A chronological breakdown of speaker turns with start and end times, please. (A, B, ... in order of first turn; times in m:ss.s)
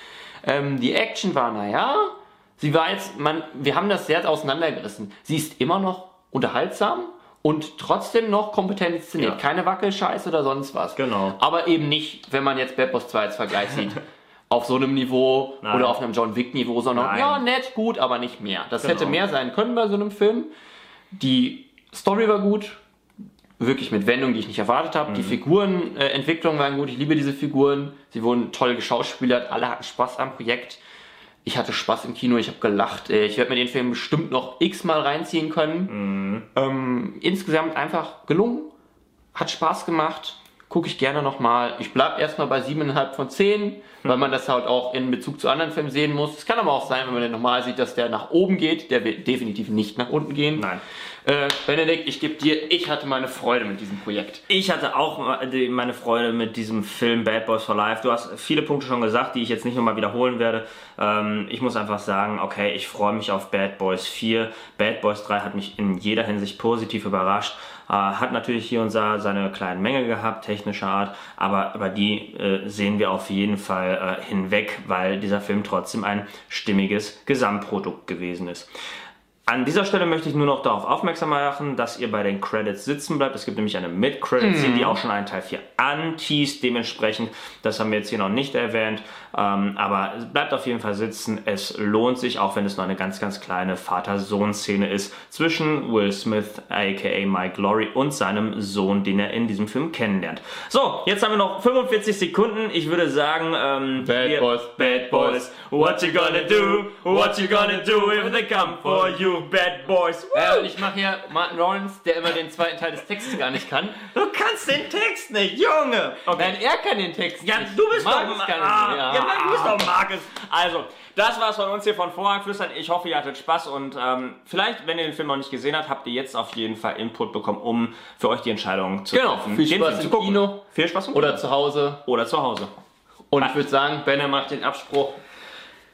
0:00.4-0:20.5 A
0:11.0-0:11.4 B
0:15.6-0:16.0 B
0:16.9-0:17.4 B
0:18.8-0:19.2 B
0:21.1-0:22.8 A
0:23.6-0:30.8 A
0:25.1-0:25.4 B
0:31.4-0:35.9 A
0:35.9-0:36.4 B
0:36.5-0:38.7 A
0:39.3-0:50.7 A
0:50.6-0:50.8 B
0:51.2-0:54.4 A
0:54.5-1:18.7 B
1:19.4-1:50.8 B
1:24.4-1:25.0 A
1:44.0-1:49.3 A
1:50.3-1:54.0 A
1:54.0-1:56.6 B
1:56.3-1:59.9 A
1:57.4-2:11.4 B
2:09.1-2:12.0 A
2:12.0-2:12.7 B
2:13.3-2:15.2 A